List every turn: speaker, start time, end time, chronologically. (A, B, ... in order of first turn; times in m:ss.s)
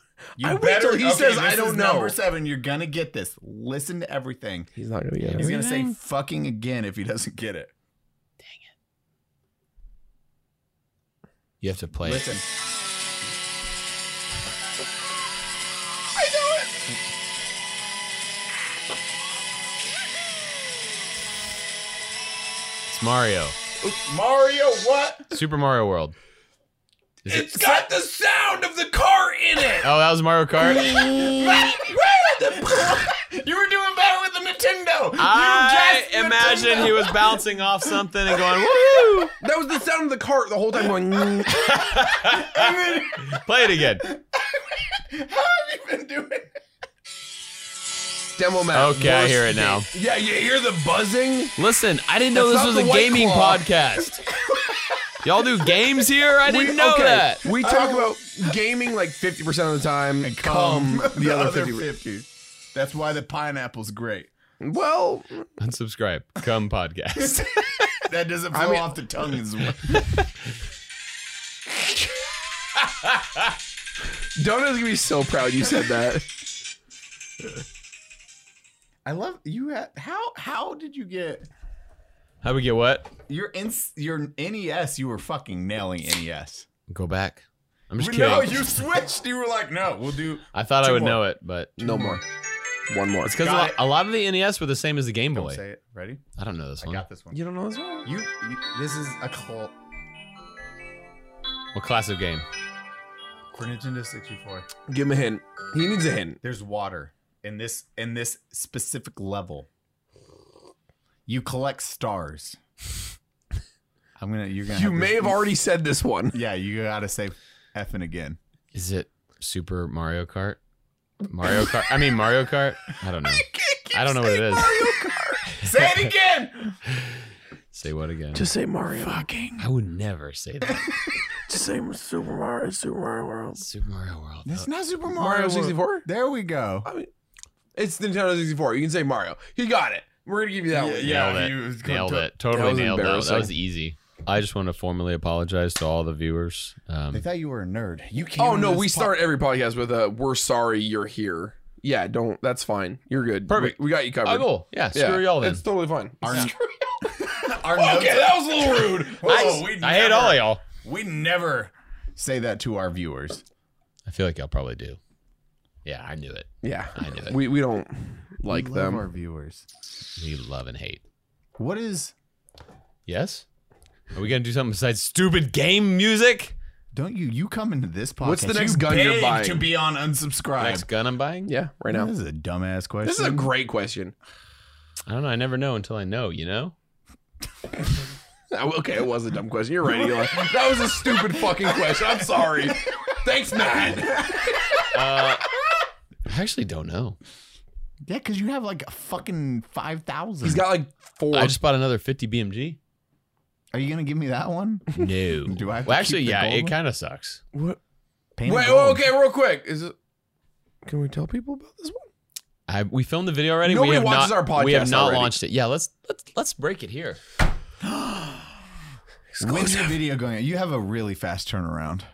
0:00.4-0:02.2 A
0:00.4-0:04.7 B
0:04.7-0:05.5 A
0:05.2-0:05.9 C
0:05.4-0:07.7 B
0:11.6-0:12.3 C
0:12.0-0:12.5 B
0:16.2-0:16.7 B
0:22.9-0:23.6 C
0:23.8-0:25.4 B
0:25.3-0:26.1 C
0:27.2-0:27.8 C
0:27.3-0:30.0 A
0:29.8-0:31.3 C
0:30.6-0:33.0 A
0:31.0-0:39.2 B
0:35.2-0:39.3 C
0:39.4-0:41.6 A
0:41.5-0:44.1 C
0:41.5-0:46.6 B
0:48.4-0:51.6 A
0:48.7-0:49.9 C
0:51.6-0:54.2 C
0:52.3-0:53.7 A
0:54.3-0:55.7 B
0:55.2-0:57.4 C
0:56.4-1:01.9 A
0:57.4-0:58.5 B
1:00.2-1:04.3 B
1:04.6-1:05.5 A
1:05.6-1:07.6 C
1:07.2-1:10.1 B
1:08.5-1:09.0 A
1:09.9-1:10.2 C
1:13.0-1:13.4 C
1:14.4-1:16.3 A
1:19.0-1:21.5 B
1:22.4-1:23.1 C
1:23.3-1:26.7 B
1:26.9-1:28.7 C
1:28.0-1:31.2 B
1:30.5-1:32.1 C
1:31.8-1:32.2 A
1:31.8-1:32.2 B
1:32.9-1:33.4 A
1:33.2-1:35.6 C
1:33.4-1:33.8 B
1:35.3-1:36.2 B
1:36.4-1:37.0 C
1:36.8-1:37.4 B
1:37.3-1:38.1 A
1:38.0-1:39.7 B
1:41.7-1:42.4 C
1:43.5-1:44.7 B
1:44.9-1:46.4 A
1:46.4-1:49.7 B
1:51.3-1:52.6 B
1:54.2-1:55.4 B
1:54.7-1:56.4 A
1:56.3-1:58.4 B
1:58.7-2:00.6 C
2:01.3-2:04.9 C
2:01.4-2:01.8 B
2:03.1-2:06.8 B
2:05.5-2:05.8 C
2:07.7-2:08.5 C
2:08.3-2:09.2 A
2:09.0-2:09.7 B
2:09.6-2:10.9 C
2:10.7-2:11.1 B
2:11.5-2:13.6 A
2:13.6-2:14.7 C
2:14.4-2:16.9 B
2:15.1-2:16.1 A
2:16.8-2:17.1 A
2:17.8-2:21.2 A
2:20.7-2:22.3 B
2:21.0-2:27.2 C
2:22.5-2:23.5 A
2:27.1-2:29.2 B
2:28.4-2:36.5 A
2:33.5-2:35.6 C
2:36.2-2:43.4 B
2:37.7-2:39.3 A
2:39.2-2:40.6 C
2:44.0-2:45.0 C
2:45.8-2:47.4 C
2:46.6-2:49.0 A
2:48.5-2:49.6 B
2:50.2-2:51.0 C
2:51.6-2:52.1 B
2:53.1-2:53.4 C
2:54.1-2:56.5 C
2:56.9-3:00.9 B
2:58.2-2:59.7 A
3:00.6-3:01.5 C
3:01.4-3:02.1 A
3:01.9-3:03.5 B
3:03.0-3:04.1 A
3:05.1-3:06.7 C
3:08.5-3:14.8 A
3:09.8-3:10.5 B
3:11.0-3:13.0 B
3:13.8-3:15.0 B
3:14.9-3:15.4 C
3:16.2-3:17.2 C
3:18.1-3:20.7 B
3:20.4-3:21.6 A
3:21.3-3:22.8 C
3:23.7-3:26.8 B
3:24.9-3:27.4 C
3:27.5-3:27.8 A
3:28.4-3:29.1 B
3:28.4-3:29.9 A
3:30.8-3:32.1 A
3:32.7-3:37.2 C
3:33.6-3:35.3 A
3:37.8-3:38.7 B
3:39.3-3:40.0 A
3:39.4-3:42.0 B